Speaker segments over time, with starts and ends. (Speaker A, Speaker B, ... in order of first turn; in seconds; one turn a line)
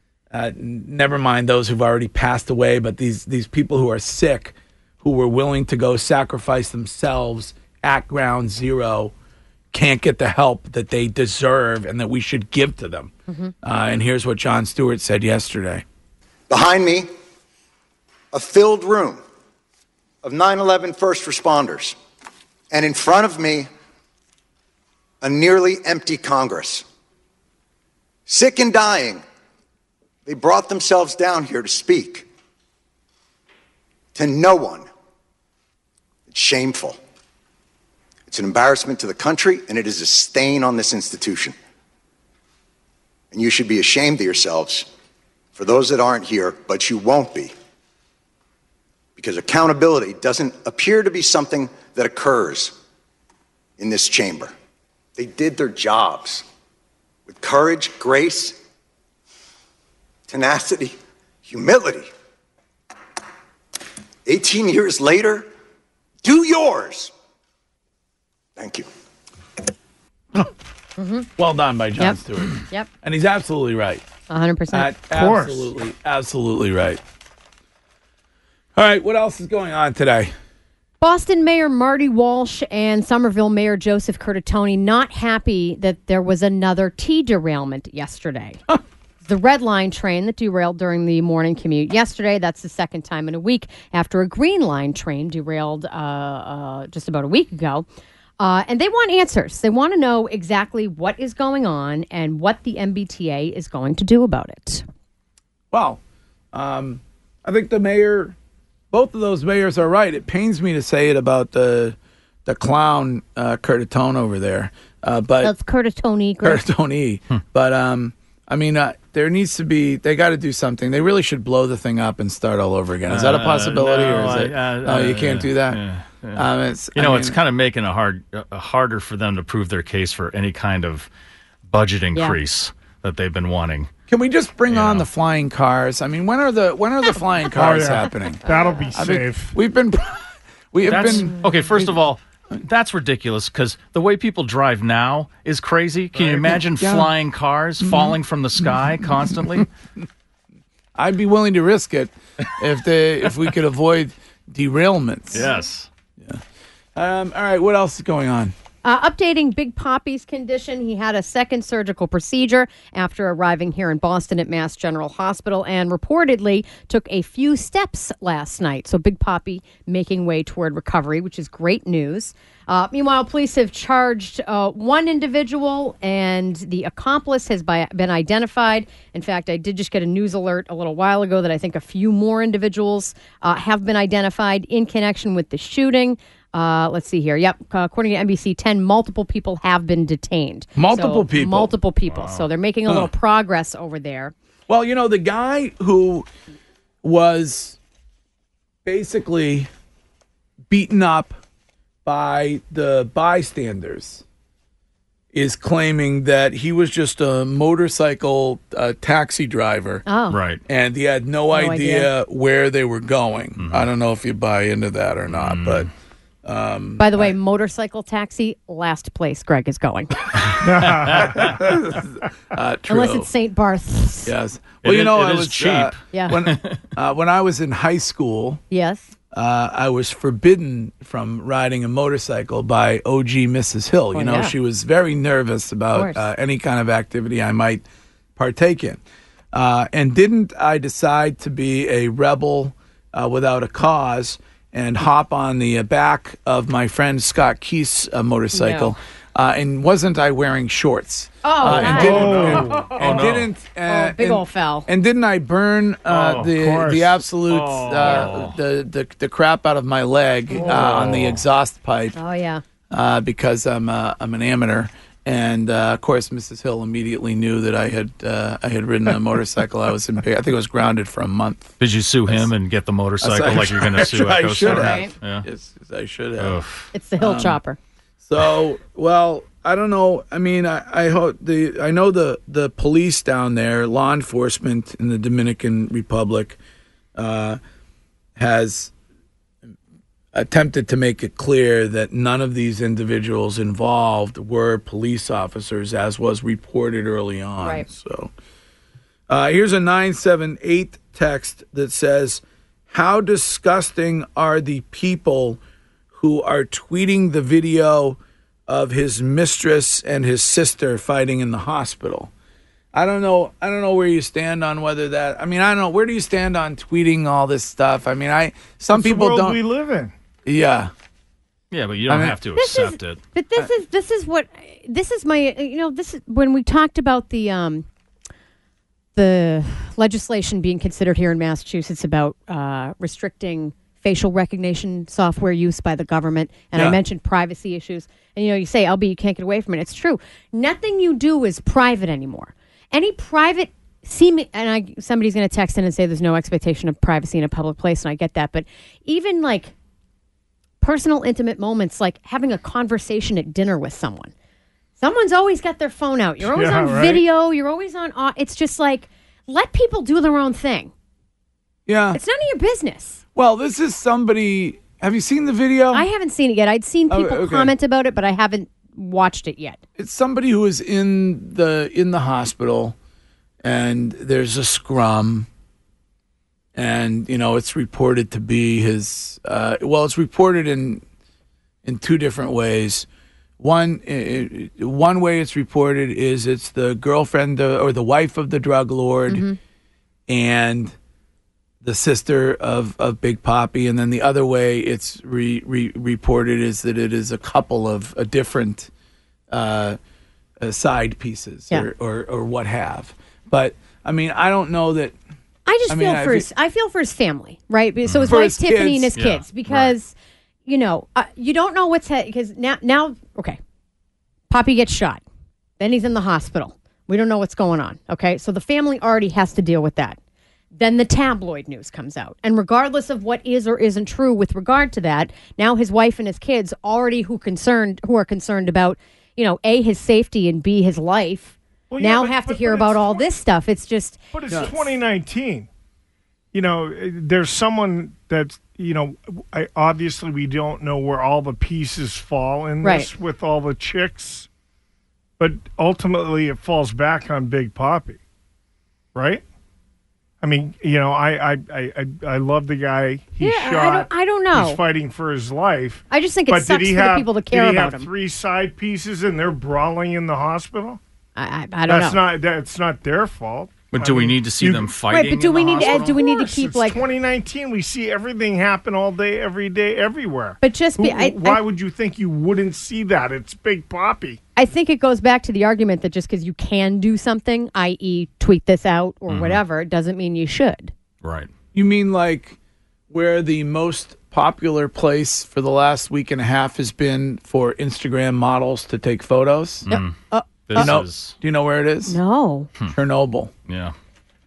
Speaker A: 0.3-9.1
Speaker A: 9.7-13.1
Speaker B: 13.3-13.5
Speaker A: 13.6-15.8
Speaker C: 16.5-17.1
Speaker C: 18.3-19.2
Speaker C: 20.2-22.0
Speaker C: 22.7-23.7
Speaker C: 25.2-26.9
Speaker C: 28.3-29.2
Speaker C: 30.3-32.3
Speaker C: 34.1-34.9
Speaker C: 36.3-37.0
Speaker C: 38.3-41.5
Speaker C: 43.3-44.9
Speaker C: 45.5-47.5
Speaker C: 49.2-52.7
Speaker C: 53.8-54.5
Speaker C: 55.2-56.5
Speaker C: 57.3-58.6
Speaker C: 60.3-62.1
Speaker C: 64.3-65.5
Speaker C: 66.2-67.1
Speaker C: 68.6-68.9
Speaker B: 71.0-71.3
Speaker A: 71.4-74.0
Speaker B: 72.0-72.9
Speaker B: 74.3-74.9
Speaker A: 74.7-77.0
Speaker D: 75.1-75.7
Speaker A: 78.8-80.3
Speaker B: 81.0-88.6
Speaker B: 89.2-97.9
Speaker B: 98.4-104.8
Speaker A: 105.7-106.0
Speaker A: 106.5-108.4
Speaker A: 108.9-112.0
Speaker A: 112.5-115.5
Speaker B: 115.4-116.6
Speaker A: 116.4-125.8
Speaker E: 123.1-126.4
Speaker A: 126.4-127.4
Speaker E: 127.0-131.1
Speaker E: 131.7-133.9
Speaker A: 134.1-138.4
Speaker E: 134.7-135.1
Speaker D: 137.5-139.6
Speaker A: 138.9-141.3
Speaker E: 140.8-149.7
Speaker A: 146.2-147.1
Speaker A: 151.0-155.5
Speaker E: 155.3-155.9
Speaker A: 157.0-158.5
Speaker B: 158.8-194.3
Speaker A: 190.8-191.7
Speaker E: 192.1-192.4
Speaker A: 194.7-196.3
Speaker A: 197.0-197.8
Speaker A: 198.8-199.7
Speaker A: 200.7-201.4
Speaker A: 202.1-204.2
Speaker A: 205.3-210.1
Speaker B: 210.1-210.4
Speaker E: 210.3-210.6
Speaker A: 210.7-215.9
Speaker B: 211.5-212.1
Speaker E: 213.6-213.9
Speaker E: 215.3-215.9
Speaker A: 216.4-217.3
Speaker B: 217.0-220.4
Speaker D: 220.6-221.6
Speaker E: 220.9-221.4
Speaker A: 221.2-223.3
Speaker B: 222.9-224.3
Speaker A: 224.3-228.6
Speaker E: 224.8-226.8
Speaker B: 226.1-226.4
Speaker B: 228.7-229.1
Speaker A: 229.3-237.8
Speaker B: 234.1-234.5
Speaker B: 235.9-236.2
Speaker A: 238.4-239.0
Speaker A: 239.5-262.2
Speaker B: 248.5-248.9
Speaker B: 251.4-252.8
Speaker D: 251.7-253.0
Speaker E: 251.9-253.5
Speaker B: 253.9-254.9
Speaker E: 256.1-256.9
Speaker D: 256.6-257.2
Speaker E: 257.5-258.6
Speaker B: 258.0-258.3
Speaker D: 260.5-261.4
Speaker E: 260.7-261.0
Speaker B: 262.2-262.6
Speaker A: 262.9-272.5
Speaker E: 271.8-275.4
Speaker A: 273.2-276.6
Speaker B: 274.7-275.1
Speaker E: 276.4-276.9
Speaker B: 276.9-277.8
Speaker A: 277.2-277.6
Speaker A: 278.2-286.6
Speaker A: 287.2-287.6
Speaker A: 288.4-288.9
Speaker A: 290.3-298.3
Speaker A: 299.3-305.6
Speaker A: 306.1-308.2
Speaker A: 308.7-312.3
Speaker A: 312.9-319.6
Speaker D: 318.9-320.1
Speaker A: 320.5-320.9
Speaker E: 321.7-323.2
Speaker A: 322.1-322.4
Speaker B: 322.6-327.9
Speaker B: 329.2-349.7
Speaker B: 350.8-354.3
Speaker B: 355.0-360.9
Speaker D: 356.4-357.2
Speaker A: 361.9-362.2
Speaker B: 362.1-363.2
Speaker A: 363.4-366.1
Speaker B: 365.9-369.8
Speaker A: 367.1-367.7
Speaker A: 370.0-372.9
Speaker A: 373.6-375.5
Speaker A: 376.8-381.0
Speaker A: 381.9-383.1
Speaker A: 383.6-389.4
Speaker B: 389.3-389.6
Speaker A: 390.3-390.9
Speaker A: 391.8-398.9
Speaker A: 399.5-400.0
Speaker A: 400.6-405.1
Speaker B: 405.7-410.1
Speaker A: 405.9-406.5
Speaker E: 408.1-408.3
Speaker A: 408.3-409.1
Speaker E: 409.1-409.9
Speaker B: 410.7-413.6
Speaker B: 414.5-415.2
Speaker B: 415.8-420.2
Speaker B: 420.8-434.7
Speaker D: 431.9-433.3
Speaker D: 434.3-435.7
Speaker D: 436.5-444.5
Speaker B: 442.8-443.1
Speaker D: 445.4-448.2
Speaker D: 449.1-449.4
Speaker D: 450.4-461.0
Speaker B: 453.4-454.8
Speaker B: 456.1-458.1
Speaker B: 461.4-462.2
Speaker D: 461.9-464.9
Speaker E: 463.9-466.2
Speaker B: 465.1-467.0
Speaker D: 465.7-474.4
Speaker B: 470.6-471.6
Speaker B: 474.6-480.9
Speaker E: 479.3-479.6
Speaker E: 481.2-481.5
Speaker A: 481.7-482.6
Speaker A: 483.1-489.9
Speaker E: 489.9-490.1
Speaker B: 489.9-490.9
Speaker E: 490.7-491.4
Speaker A: 490.7-492.2
Speaker B: 492.1-492.7
Speaker A: 492.9-493.5
Speaker E: 493.7-493.9